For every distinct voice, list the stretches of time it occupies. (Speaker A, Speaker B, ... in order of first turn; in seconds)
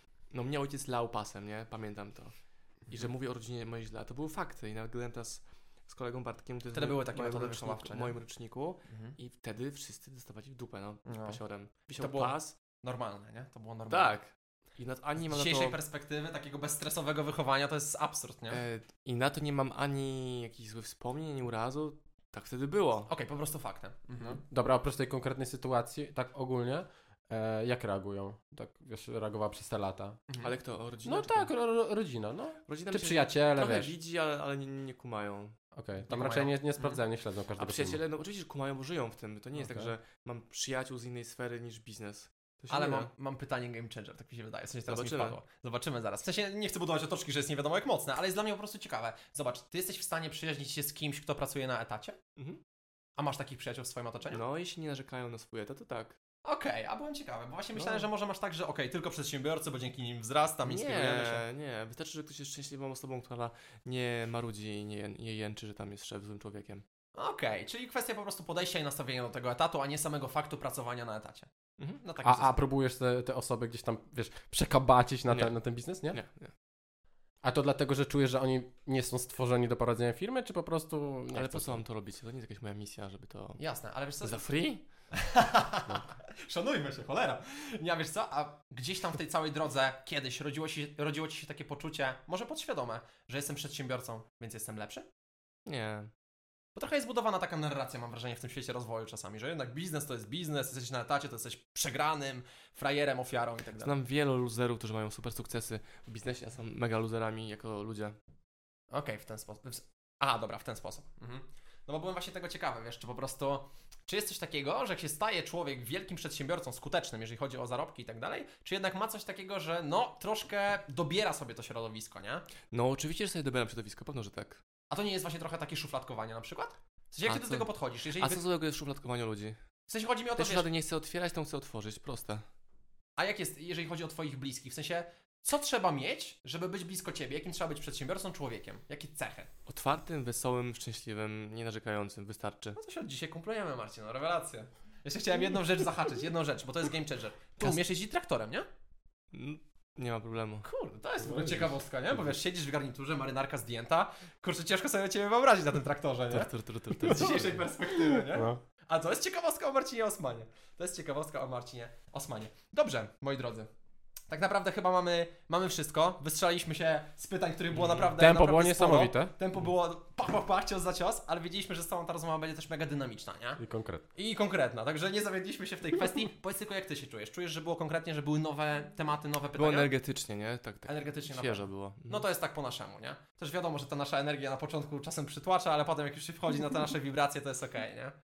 Speaker A: 0.3-2.3, 2.9-12.6, 13.9-15.8, 18.5-23.1, 30.4-31.5, 32.7-35.5, 37.6-43.1, 44.9-45.4, 54.3-56.2, 57.8-58.0, 60.6-66.8, 75.3-75.5, 76.1-76.5, 81.3-83.6, 84.2-84.8, 95.7-96.1, 103.8-108.1, 122.7-124.6, 127.2-129.6, 130.3-132.4, 139.7-142.8, 149.3-150.7, 156.3-157.7, 167.7-168.1, 179.6-182.2
Speaker B: 6.7-8.1, 8.9-9.1, 11.1-11.4, 12.0-14.1, 15.2-18.6, 23.1-24.4, 30.3-30.5, 36.1-37.0, 42.7-52.2, 53.2-54.4, 56.4-61.5, 67.1-71.5, 72.0-72.6, 83.6-84.4, 85.1-95.1, 96.7-103.9, 108.9-122.5, 124.9-128.4, 129.9-130.7, 133.2-139.5, 142.8-148.7, 150.6-163.7, 164.3-173.6, 174.1-179.9, 180.8-188.1
Speaker C: 24.2-30.2, 31.0-33.9, 35.7-38.0, 39.5-39.9, 72.2-76.2, 77.4-81.8, 151.2-151.7, 158.1-158.6, 168.2-169.3, 173.6-174.0